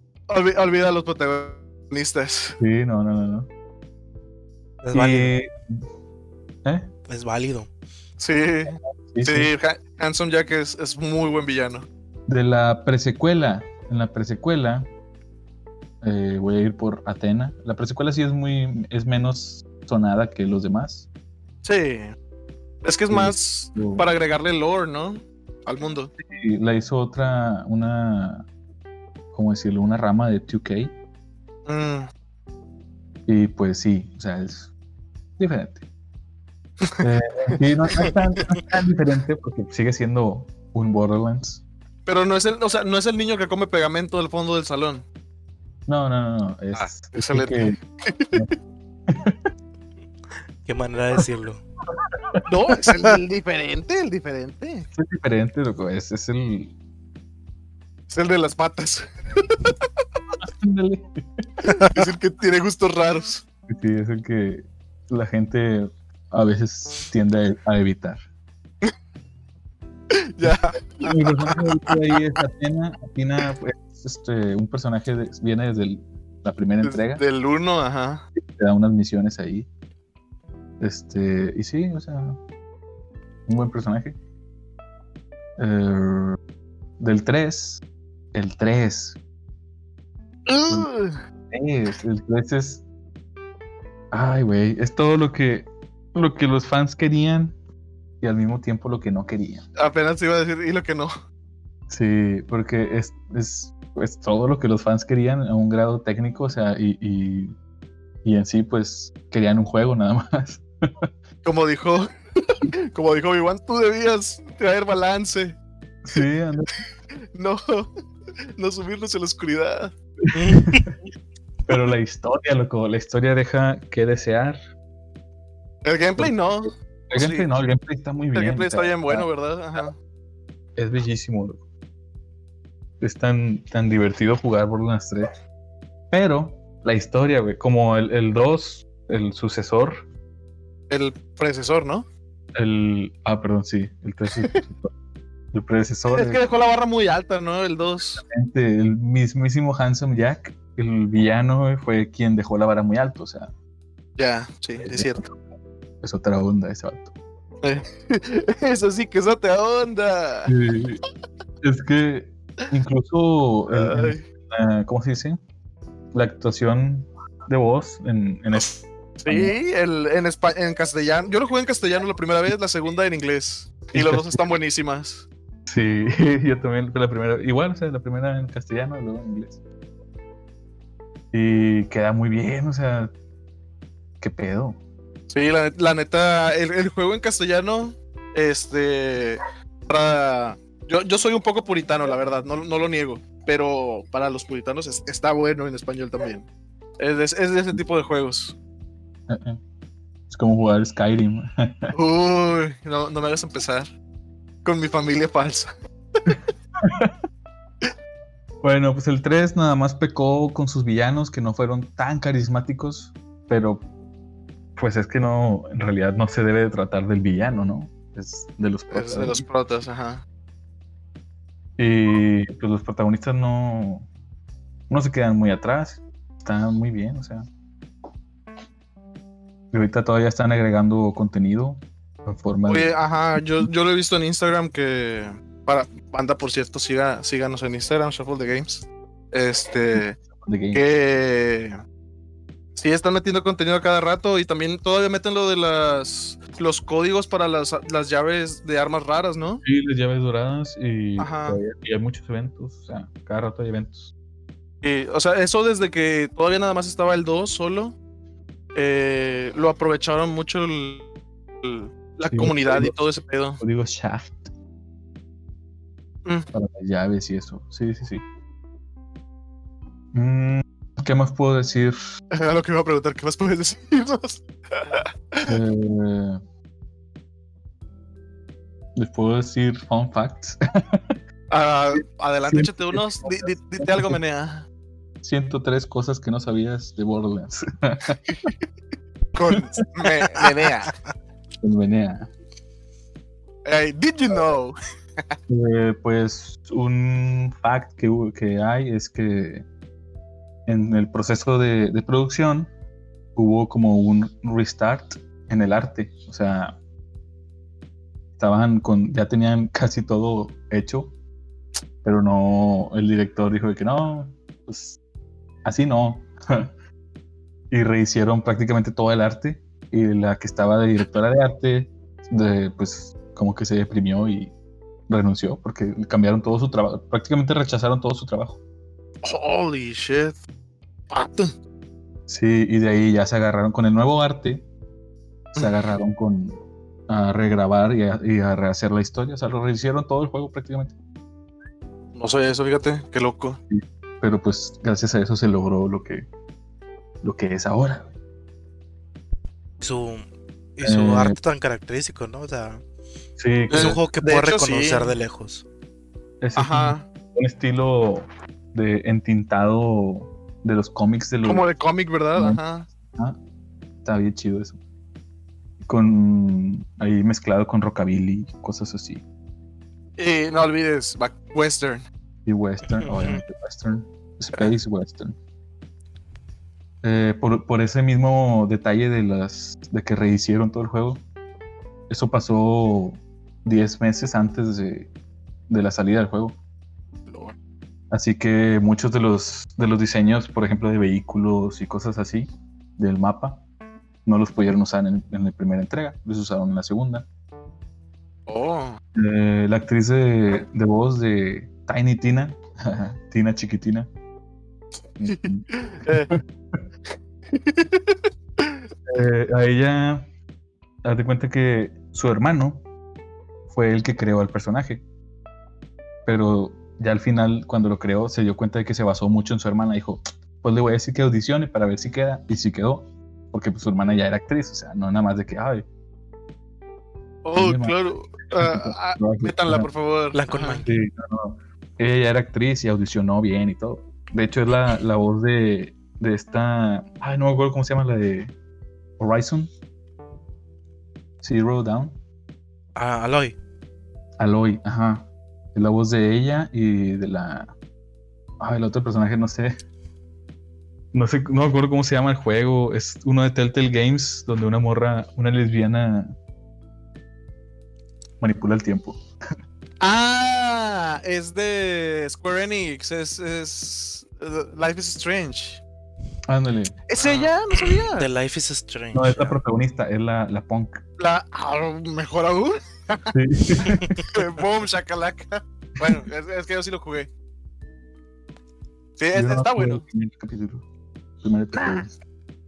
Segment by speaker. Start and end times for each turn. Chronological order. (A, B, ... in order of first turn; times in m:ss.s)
0:00.3-0:02.6 A
0:02.6-0:03.5 B
0:04.8-0:05.3 C
0:04.9-0:05.8 B
0:06.6-0:06.9 B
0:07.1-0:07.7 C
0:08.2-0:11.8 A
0:08.7-0:09.5 B
0:12.3-0:14.9 B
0:16.0-0:21.0 B
0:21.6-0:22.2 A
0:22.8-0:26.1 A
0:23.1-0:24.1 B
0:26.2-0:28.5 B
0:29.3-0:30.9 B
0:31.7-0:32.1 A
0:33.3-0:34.7 B
0:35.4-0:35.8 B
0:36.8-0:38.6 A
0:37.0-0:41.6 B
0:42.0-0:45.0 A
0:45.9-0:47.8 B
0:46.7-0:48.5 A
0:49.1-0:49.4 B
0:50.6-0:51.6 C
0:52.1-0:52.4 B
0:52.4-0:54.9 A
0:54.9-0:56.7 B
0:58.1-0:59.9 A
1:00.4-1:01.5 B
1:01.7-1:03.4 A
1:03.7-1:08.2 B
1:10.1-1:12.2 A
1:10.4-1:17.2 B
1:16.8-1:18.2 A
1:18.3-1:19.7 B
1:20.8-1:22.4 B
1:23.5-1:24.2 B
1:25.6-1:26.4 B
1:27.0-1:27.8 B
1:28.3-1:29.2 B
1:30.5-1:31.2 A
1:31.5-1:32.8 B
1:34.1-1:37.6 B
1:38.2-1:39.6 B
1:39.8-1:41.1 A
1:41.9-1:47.5 B
1:48.2-1:51.1 B
1:51.4-1:55.6 A
1:56.0-1:56.7 B
1:57.3-1:57.9 A
1:58.6-1:59.9 A
2:00.2-2:00.9 B
2:00.3-2:00.8 C
2:01.7-2:04.6 B
2:05.8-2:07.5 A
2:07.1-2:09.8 B
2:08.3-2:10.0 A
2:10.8-2:11.6 B
2:13.0-2:15.3 B
2:16.1-2:20.1 B
2:20.9-2:22.1 A
2:22.6-2:24.9 B
2:25.5-2:26.4 B
2:26.1-2:28.2 A
2:28.2-2:33.5 B
2:34.2-2:35.2 A
2:34.8-2:35.4 B
2:36.0-2:37.1 B
2:37.6-2:40.5 A
2:40.5-2:41.0 B
2:41.6-2:45.4 B
2:43.7-2:44.2 A
2:46.1-2:49.5 B
2:48.6-2:55.2 A
2:53.9-2:54.4 B
2:55.7-2:59.6 B
3:01.3-3:03.1 B
3:04.2-3:04.8 B
3:05.3-3:16.4 A
3:17.0-3:18.6 A
3:19.3-3:19.6 B
3:20.3-3:21.9 B
3:21.9-3:23.9 A
3:24.6-3:26.3 A
3:26.8-3:27.1 B
3:28.6-3:33.8 B
3:34.8-3:39.4 B
3:38.9-3:40.2 A
3:41.8-3:44.1 B
3:44.9-3:47.4 B
3:49.7-3:53.0 B
3:52.7-4:00.2 A
4:00.0-4:00.8 B
4:00.7-4:01.8 A
4:02.8-4:09.6 A
4:09.6-4:14.1 B
4:11.2-4:11.6 A
4:14.8-4:18.0 A
4:18.7-4:21.1 A
4:21.6-4:23.6 A
4:22.3-4:23.0 B
4:23.6-4:24.5 B
4:26.5-4:28.2 B
4:30.1-4:32.0 B
4:32.3-4:35.5 A
4:35.4-4:36.4 B
4:39.0-4:41.2 B
4:41.5-4:44.7 A
4:42.5-4:44.2 B
4:45.2-4:48.2 B
4:49.3-4:50.9 A
4:49.5-4:49.8 B
4:51.6-4:52.3 B
4:53.6-4:54.8 A
4:55.5-4:59.6 B
5:00.7-5:02.7 B
5:03.4-5:06.8 B
5:08.4-5:11.2 B
5:12.0-5:15.0 B
5:15.6-5:16.7 B
5:17.7-5:24.5 B
5:25.1-5:28.6 B
5:29.2-5:30.4 A
5:31.1-5:31.5 A
5:32.3-5:34.6 B
5:35.5-5:35.9 A
5:35.6-5:40.9 B
5:42.2-5:43.6 A
5:43.7-5:46.2 B
5:47.2-5:48.1 B
5:49.8-5:50.2 C
5:50.8-5:52.8 C
5:50.8-5:51.4 B
5:53.4-5:54.0 B
5:53.7-5:55.2 A
5:53.7-5:55.6 C
5:56.4-6:01.6 B
5:56.6-5:57.0 A
6:01.4-6:02.9 A
6:02.3-6:03.4 B
6:04.0-6:04.8 B
6:05.8-6:09.2 B
6:10.2-6:12.0 A
6:12.4-6:15.4 B
6:12.9-6:13.4 C
6:17.0-6:21.2 B
6:22.1-6:25.1 B
6:25.7-6:26.6 B
6:27.3-6:27.5 A
6:28.1-6:33.6 B
6:34.2-6:37.2 B
6:38.5-6:39.0 A
6:39.1-6:44.1 B
6:45.2-6:46.2 B
6:45.3-6:46.3 A
6:47.5-6:48.8 A
6:49.1-6:50.3 B
6:51.0-6:52.8 B
6:53.7-6:55.0 B
6:56.2-7:05.9 B
7:07.4-7:10.8 A
7:07.6-7:08.0 B
7:08.5-7:09.9 B
7:10.3-7:10.9 C
7:10.8-7:18.5 B
7:19.2-7:19.7 B
7:21.4-7:22.2 B
7:22.9-7:23.6 C
7:24.4-7:27.7 B
7:28.6-7:29.8 B
7:31.1-7:36.4 B
7:38.4-7:39.2 B
7:40.0-7:45.8 A
7:46.5-7:47.0 B
7:47.1-7:48.3 A
7:47.2-7:49.6 C
7:49.1-7:51.0 B
7:51.2-7:57.3 A
7:53.3-7:54.2 B
7:59.2-8:00.0 A
7:59.3-8:00.8 B
8:01.4-8:02.1 B
8:01.7-8:02.0 A